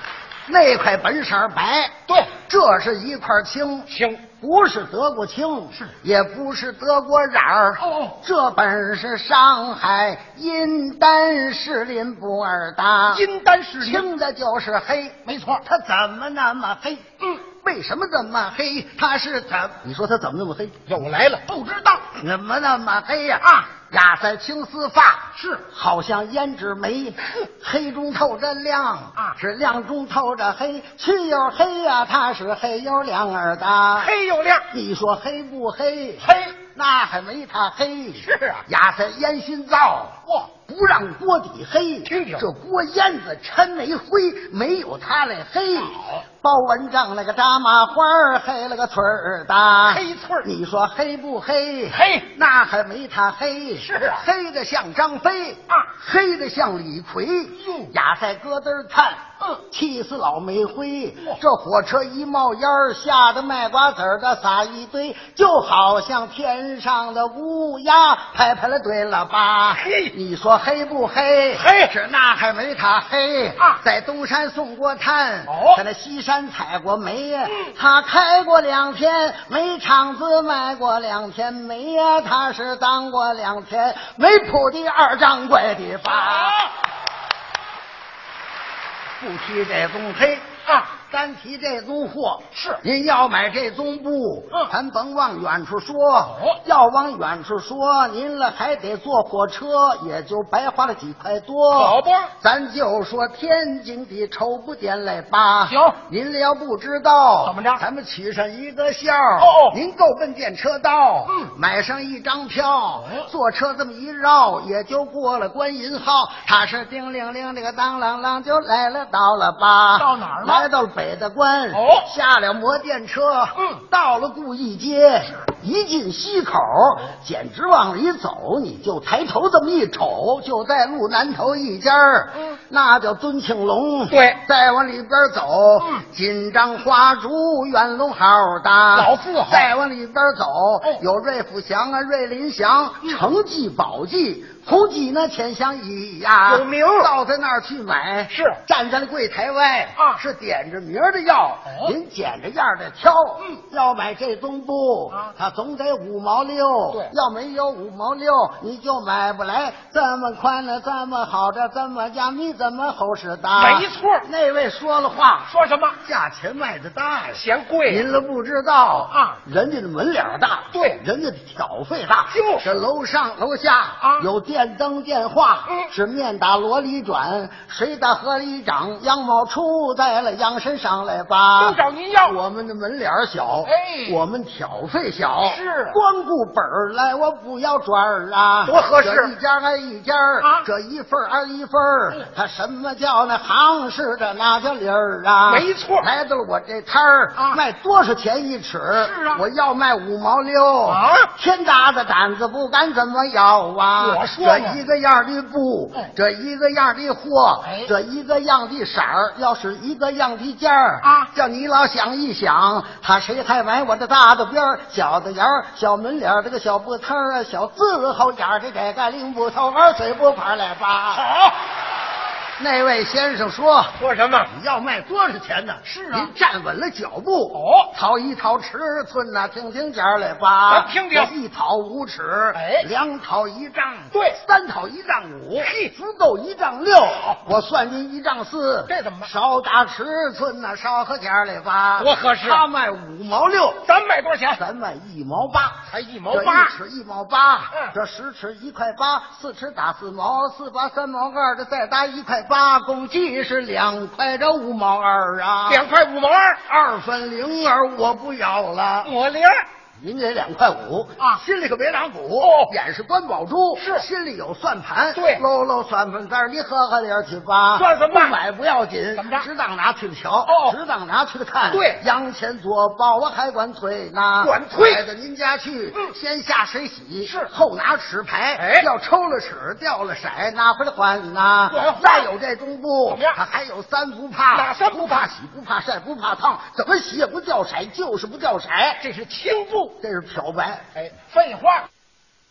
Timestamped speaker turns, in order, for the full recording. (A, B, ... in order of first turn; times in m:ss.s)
0:00.5-0:13.2 A
0:03.9-0:04.2 B
0:07.8-0:08.1 B
0:13.1-0:14.1 B
0:13.8-0:20.8 A
0:15.2-0:15.6 B
0:20.9-0:22.0 B
0:22.1-0:34.1 A
0:23.4-0:23.7 B
0:25.4-0:25.6 B
0:34.0-0:34.7 B
0:34.7-1:26.6 A
0:36.2-0:36.5 B
0:38.2-0:38.6 B
0:42.1-0:42.5 B
0:49.9-0:50.5 B
0:51.9-0:52.3 B
0:53.8-0:54.2 B
0:57.6-0:57.9 B
1:09.8-1:10.1 B
1:11.6-1:11.9 B
1:15.5-1:15.8 B
1:26.1-1:26.7 B
1:29.2-3:41.2 A
1:32.5-1:32.8 B
1:41.8-1:42.3 B
1:45.7-1:46.0 B
1:47.4-1:47.8 B
1:49.4-1:49.8 B
1:53.0-1:53.3 B
2:00.0-2:00.7 B
2:01.7-2:02.1 B
2:14.1-2:14.4 B
2:19.0-2:19.7 B
2:26.5-2:27.1 B
2:28.3-2:28.6 B
2:31.7-2:32.0 B
2:43.6-2:44.3 B
2:45.5-2:46.0 B
2:47.4-2:48.1 B
2:49.1-2:49.4 B
2:50.7-2:51.0 B
2:52.3-2:52.8 B
2:54.0-2:54.3 B
3:01.6-3:02.4 B
3:03.6-3:04.2 B
3:05.4-3:06.0 B
3:08.6-3:09.3 B
3:10.4-3:10.7 B
3:15.5-3:16.1 B
3:19.0-3:19.4 B
3:20.9-3:21.3 B
3:24.0-3:24.8 B
3:27.6-3:27.9 B
3:31.0-3:31.3 B
3:41.1-3:41.6 B
3:42.6-4:03.9 A
3:44.0-3:44.5 B
3:45.8-3:46.3 B
3:47.5-3:47.9 B
3:50.7-3:51.3 B
3:52.6-3:52.9 B
3:54.1-3:54.4 B
3:55.6-3:55.9 B
3:58.9-3:59.3 B
4:02.0-4:02.6 B
4:03.8-4:04.6 B
4:04.6-4:15.9 A
4:05.9-4:06.8 B
4:15.7-4:16.6 B
4:16.6-4:19.1 A
4:19.0-4:19.6 B
4:20.0-4:49.0 A
4:22.4-4:22.7 B
4:23.8-4:24.0 B
4:25.2-4:25.4 B
4:27.8-4:28.4 B
4:29.2-4:29.5 B
4:30.5-4:30.8 B
4:31.7-4:32.0 B
4:34.4-4:35.0 B
4:37.2-4:37.5 B
4:38.6-4:38.9 B
4:41.7-4:42.3 B
4:43.1-4:43.4 B
4:44.5-4:45.3 B
4:49.0-4:50.0 B
4:50.0-4:50.9 A
4:51.0-4:51.9 B